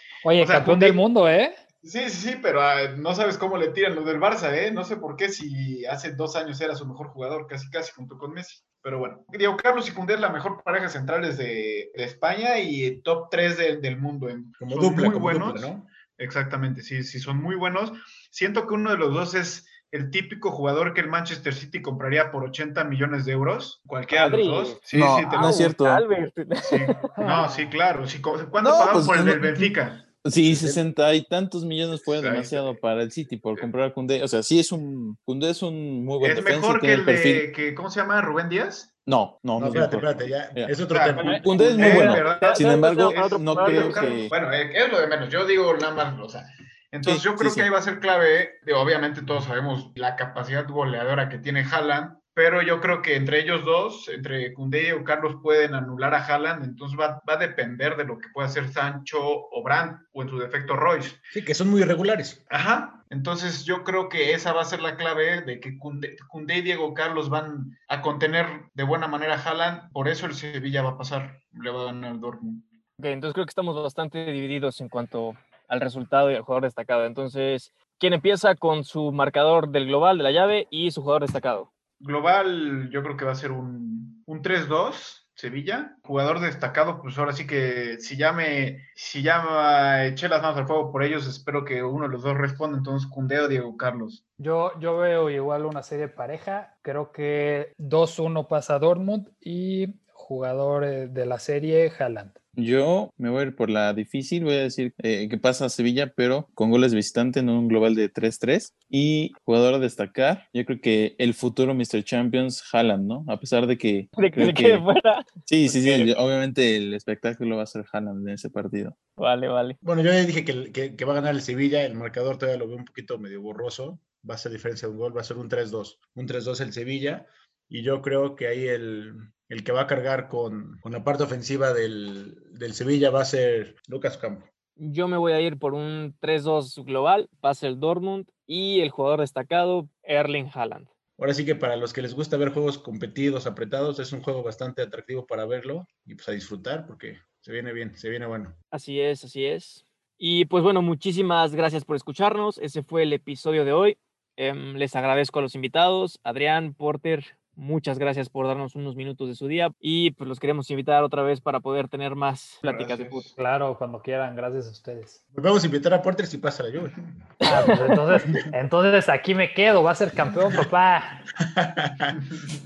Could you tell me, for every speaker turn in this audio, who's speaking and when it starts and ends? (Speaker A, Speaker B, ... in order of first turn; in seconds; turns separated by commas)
Speaker A: 0.2-1.5, Speaker B: 0.4-1.0, Speaker B: 1.8-25.7, Speaker C: 14.6-15.8, Speaker D: 24.1-24.8, Speaker E: 24.9-26.0, Speaker D: 25.3-26.9, Speaker B: 26.6-30.1, Speaker A: 27.1-27.7, Speaker E: 28.6-29.7, Speaker E: 30.2-37.5, Speaker C: 30.4-30.8, Speaker B: 32.0-32.8, Speaker B: 36.2-38.9, Speaker E: 39.0-44.3, Speaker C: 39.6-41.4, Speaker B: 40.8-61.2, Speaker D: 41.2-44.2, Speaker E: 47.0-47.7, Speaker C: 61.3-62.4, Speaker B: 62.5-72.6, Speaker D: 73.0-81.7, Speaker B: 82.0-94.2, Speaker A: 94.4-102.3, Speaker E: 102.6-114.8, Speaker D: 114.1-116.1, Speaker E: 115.5-119.0, Speaker D: 119.2-119.8, Speaker C: 119.8-134.5, Speaker D: 134.8-140.9, Speaker C: 141.2-148.5, Speaker D: 148.7-163.3, Speaker B: 162.6-163.2, Speaker A: 163.3-165.2, Speaker C: 165.3-167.0, Speaker D: 167.4-168.0, Speaker A: 167.5-171.2, Speaker C: 171.6-172.1